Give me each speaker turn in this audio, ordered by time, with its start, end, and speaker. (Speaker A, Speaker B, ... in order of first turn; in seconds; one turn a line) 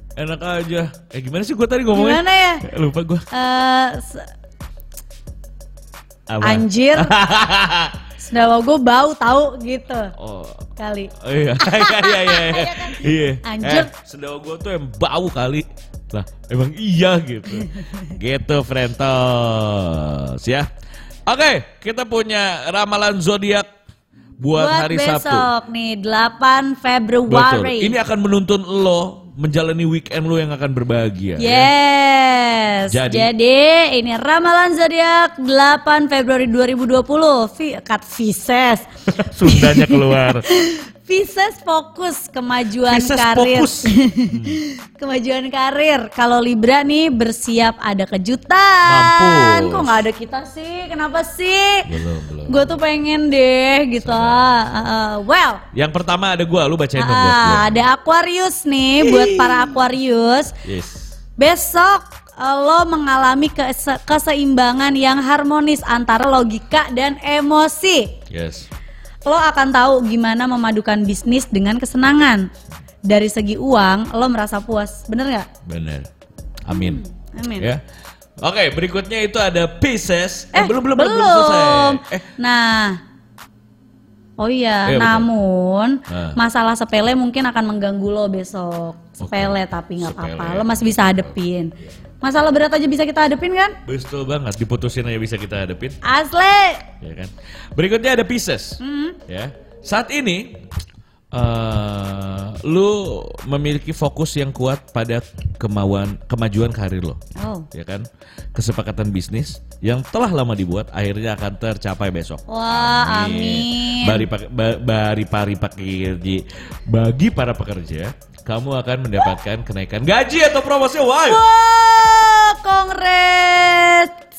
Speaker A: 0.1-3.3
Speaker B: 1.9-2.6
Speaker B: 3.3-4.3
Speaker A: 6.3-8.0
Speaker B: 6.4-7.1
Speaker B: 8.2-10.1
Speaker A: 10.2-20.7
Speaker B: 10.8-13.9
Speaker B: 17.7-18.0
Speaker A: 21.2-23.7
Speaker A: 24.4-25.5
Speaker B: 24.5-27.9
Speaker A: 27.3-31.7
Speaker B: 31.4-38.9
Speaker A: 32.9-33.3
Speaker A: 39.1-40.5
Speaker B: 39.5-51.9
Speaker A: 42.8-44.6
Speaker A: 48.8-50.0
Speaker A: 51.9-52.8
Speaker B: 52.5-55.6
Speaker A: 54.0-54.5
Speaker A: 55.7-57.8
Speaker B: 57.0-60.5
Speaker A: 59.0-59.8
Speaker A: 60.6-61.1
Speaker B: 61.4-68.2
Speaker A: 68.3-68.7
Speaker B: 69.2-72.5
Speaker B: 73.1-75.5
Speaker A: 75.6-76.1
Speaker A: 76.6-77.0
Speaker B: 76.7-77.7
Speaker A: 78.4-82.3
Speaker B: 80.5-83.0
Speaker B: 84.4-93.8
Speaker A: 84.8-85.3
Speaker A: 86.1-86.4
Speaker A: 89.2-91.9
Speaker A: 93.8-96.0
Speaker B: 96.0-96.8
Speaker A: 97.0-100.6
Speaker B: 98.8-99.2
Speaker A: 101.3-121.4
Speaker B: 107.3-107.7
Speaker B: 112.5-114.3
Speaker B: 121.2-124.2